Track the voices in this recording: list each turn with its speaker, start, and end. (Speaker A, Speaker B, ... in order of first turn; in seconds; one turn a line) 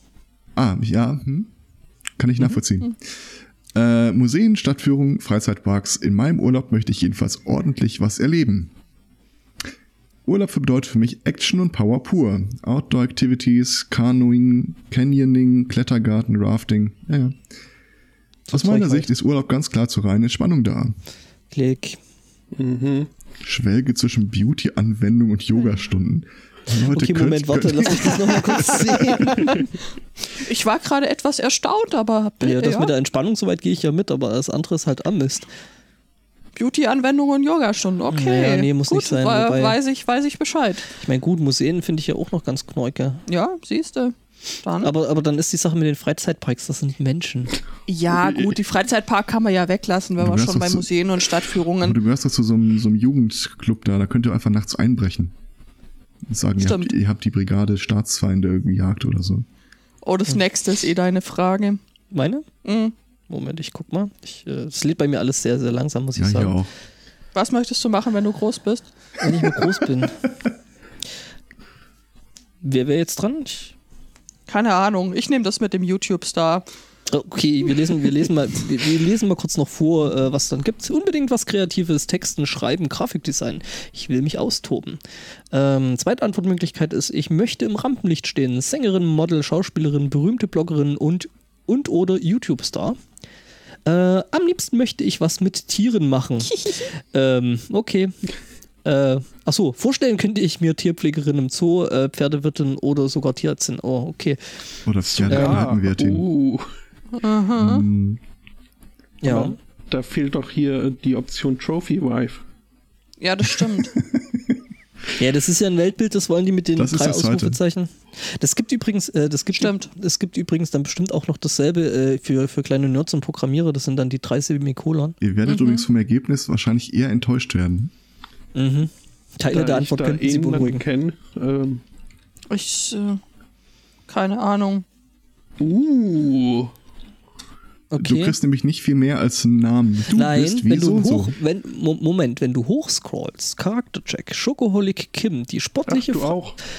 Speaker A: 0.6-1.5
Speaker A: 2.2-3.0
Speaker A: 3.7-8.7
Speaker A: 10.2-17.4
Speaker B: 18.5-19.1
Speaker A: 18.5-21.0
Speaker B: 21.5-22.0
Speaker C: 22.6-23.1
Speaker A: 23.4-28.9
Speaker B: 26.9-29.6
Speaker D: 28.0-28.6
Speaker D: 30.4-32.9
Speaker B: 32.4-35.5
Speaker D: 36.6-40.9
Speaker B: 38.1-39.8
Speaker B: 41.0-43.2
Speaker D: 43.3-44.9
Speaker B: 44.8-47.5
Speaker D: 47.9-52.0
Speaker C: 48.2-48.4
Speaker A: 50.2-50.9
Speaker A: 51.8-55.3
Speaker A: 56.2-59.5
Speaker D: 56.6-56.9
Speaker D: 60.0-61.8
Speaker B: 62.1-62.5
Speaker D: 62.6-62.9
Speaker B: 63.3-66.6
Speaker A: 66.2-66.7
Speaker D: 67.3-68.9
Speaker B: 69.2-70.2
Speaker B: 72.6-73.8
Speaker D: 74.5-76.7
Speaker B: 77.1-85.0
Speaker B: 85.5-93.0
Speaker B: 93.9-98.1
Speaker B: 98.8-104.4
Speaker A: 104.8-106.2
Speaker C: 105.1-106.7
Speaker B: 105.3-105.7
Speaker D: 107.1-107.9
Speaker A: 107.6-108.2
Speaker B: 109.2-109.6
Speaker C: 109.2-112.4
Speaker D: 113.2-114.0
Speaker A: 114.0-114.5
Speaker B: 115.2-125.2
Speaker A: 116.8-117.6
Speaker D: 119.5-119.9
Speaker A: 125.2-127.9
Speaker D: 125.5-125.9
Speaker B: 128.6-130.8
Speaker C: 129.5-131.8
Speaker D: 132.5-133.2
Speaker D: 134.1-134.8
Speaker C: 135.6-136.7
Speaker B: 137.9-138.4
Speaker A: 138.0-141.4
Speaker B: 140.1-146.3
Speaker C: 145.9-146.6